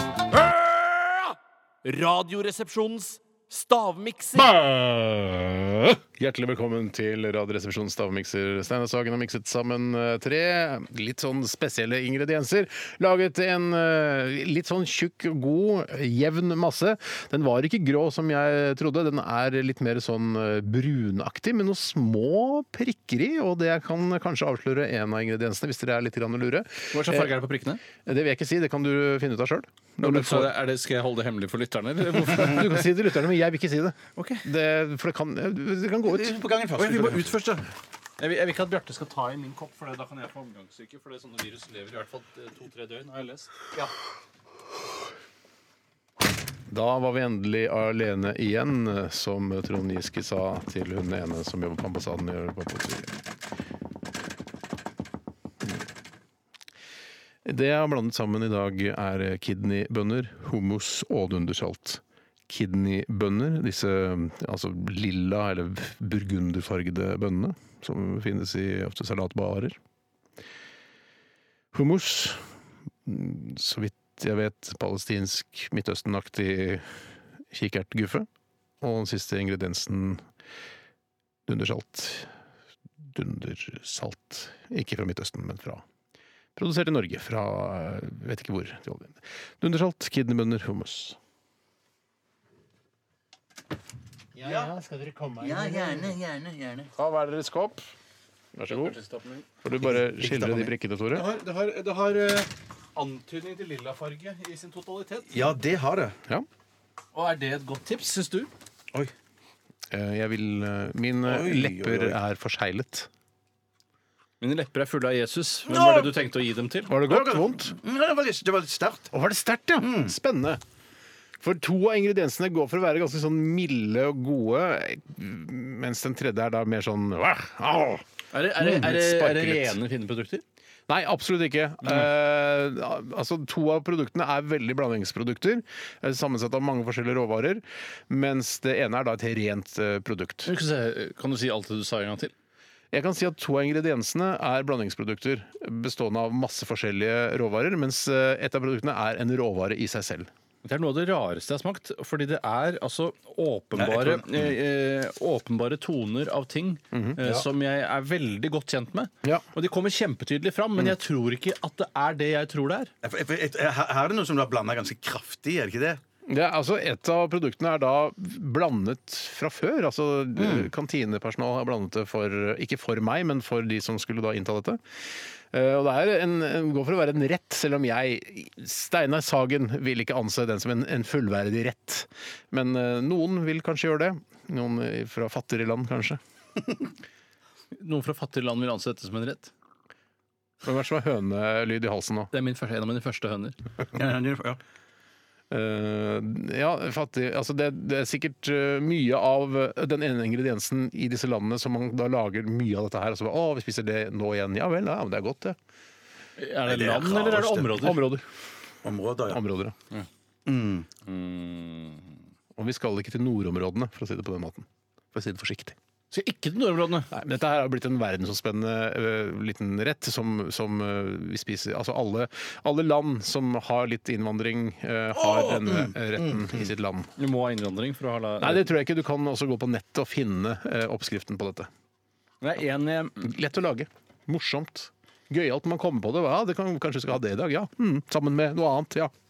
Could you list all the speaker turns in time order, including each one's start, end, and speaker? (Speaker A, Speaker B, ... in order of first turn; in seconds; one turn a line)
Speaker A: 0.3-4.5
Speaker B: 4.3-27.4
Speaker A: 26.9-27.8
Speaker B: 28.0-30.5
Speaker A: 30.0-32.8
Speaker B: 32.1-36.3
Speaker A: 34.1-34.4
Speaker C: 36.0-37.3
Speaker A: 36.8-43.5
Speaker B: 46.7-53.1
Speaker B: 57.4-69.8
Speaker B: 71.7-72.4
Speaker B: 73.0-76.8
Speaker B: 77.5-78.3
Speaker B: 78.8-80.2
Speaker B: 81.5-82.3
Speaker B: 83.0-85.8
Speaker B: 86.5-91.2
Speaker B: 94.3-96.2
Speaker C: 94.4-94.7
Speaker C: 95.4-96.9
Speaker B: 97.0-97.8
Speaker B: 98.5-99.0
Speaker A: 98.7-99.5
Speaker B: 99.6-101.2
Speaker C: 99.8-100.7
Speaker A: 101.1-105.3
Speaker C: 105.3-106.2
Speaker A: 107.1-108.5
Speaker B: 109.9-113.1
Speaker C: 111.2-112.2
Speaker A: 114.4-116.9
Speaker C: 115.7-116.1
Speaker B: 116.9-117.7
Speaker C: 117.0-119.1
Speaker B: 119.1-120.6
Speaker C: 119.8-120.1
Speaker B: 121.4-128.0
Speaker A: 128.3-130.4
Speaker B: 128.5-129.8
Speaker B: 130.9-140.5
Speaker A: 140.4-142.3
Speaker B: 142.9-150.3
Speaker A: 150.6-162.9
Speaker C: 153.8-154.2
Speaker B: 156.9-157.2
Speaker C: 163.0-166.0
Speaker B: 166.3-174.8
Speaker C: 170.4-170.7
Speaker B: 175.5-186.2
Speaker A: 187.7-189.5
Speaker B: 190.6-192.3
Speaker A: 192.3-193.6
Speaker C: 193.9-194.6
Speaker B: 195.5-205.6
Speaker A: 206.4-208.2
Speaker C: 206.6-207.8
Speaker B: 207.7-208.2
Speaker C: 208.8-209.4
Speaker B: 209.3-209.7
Speaker C: 210.4-210.9
Speaker A: 211.1-212.1
Speaker B: 212.6-215.8
Speaker A: 216.1-217.1
Speaker B: 217.1-227.1
Speaker C: 225.6-226.7
Speaker A: 227.2-228.7
Speaker B: 228.4-231.7
Speaker A: 232.4-233.3
Speaker B: 233.2-239.1